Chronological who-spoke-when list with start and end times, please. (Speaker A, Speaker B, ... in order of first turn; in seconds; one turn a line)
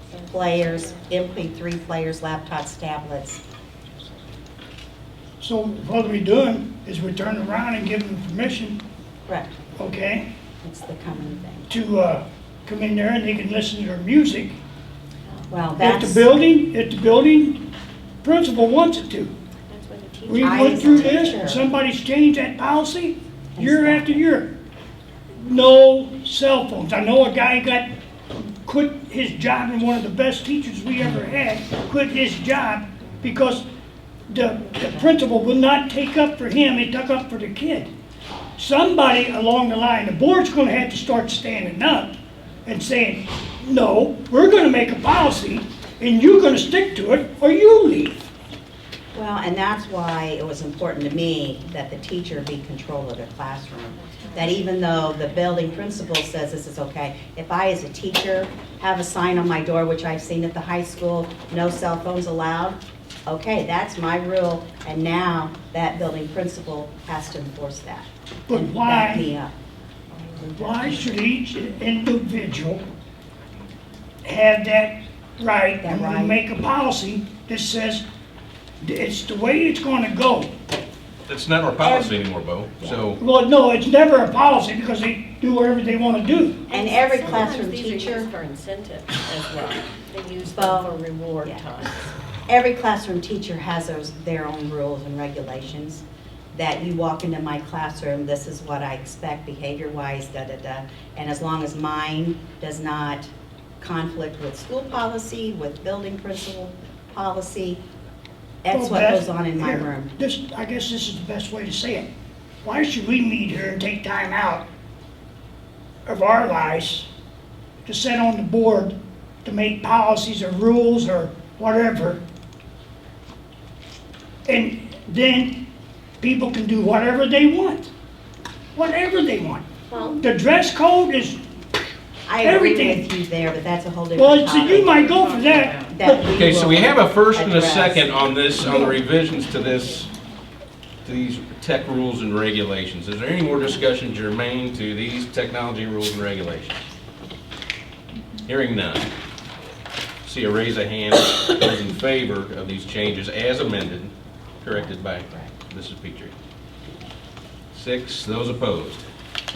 Speaker A: 0.1-1.1
Speaker B: 0.3-3.4
Speaker C: 5.4-8.8
Speaker B: 9.3-9.6
Speaker C: 9.8-10.2
Speaker B: 10.6-11.7
Speaker C: 11.7-14.6
Speaker B: 15.5-16.3
Speaker C: 15.8-17.7
Speaker C: 18.2-19.3
Speaker A: 19.7-21.3
Speaker C: 20.2-24.5
Speaker B: 20.4-21.6
Speaker B: 23.6-24.3
Speaker C: 25.4-33.7
Speaker C: 34.3-37.9
Speaker C: 38.6-48.3
Speaker B: 49.1-69.5
Speaker C: 68.5-69.3
Speaker A: 70.3-70.6
Speaker C: 70.5-72.8
Speaker C: 74.2-78.0
Speaker B: 75.8-76.4
Speaker C: 78.8-80.5
Speaker D: 81.3-83.2
Speaker B: 81.8-82.2
Speaker C: 83.2-86.7
Speaker A: 86.7-92.1
Speaker B: 86.7-88.3
Speaker B: 90.5-90.9
Speaker B: 92.5-107.8
Speaker B: 108.6-110.2
Speaker C: 108.7-112.1
Speaker C: 112.6-114.7
Speaker C: 116.1-117.1
Speaker C: 117.8-122.2
Speaker C: 124.5-125.6
Speaker C: 126.2-127.9
Speaker C: 128.8-131.4
Speaker B: 132.3-135.1
Speaker C: 132.4-133.1
Speaker C: 134.2-136.3
Speaker A: 134.7-136.0
Speaker B: 135.9-138.9
Speaker D: 136.3-140.1
Speaker D: 141.0-146.8
Speaker D: 148.5-149.1
Speaker D: 150.2-156.3
Speaker D: 157.7-159.0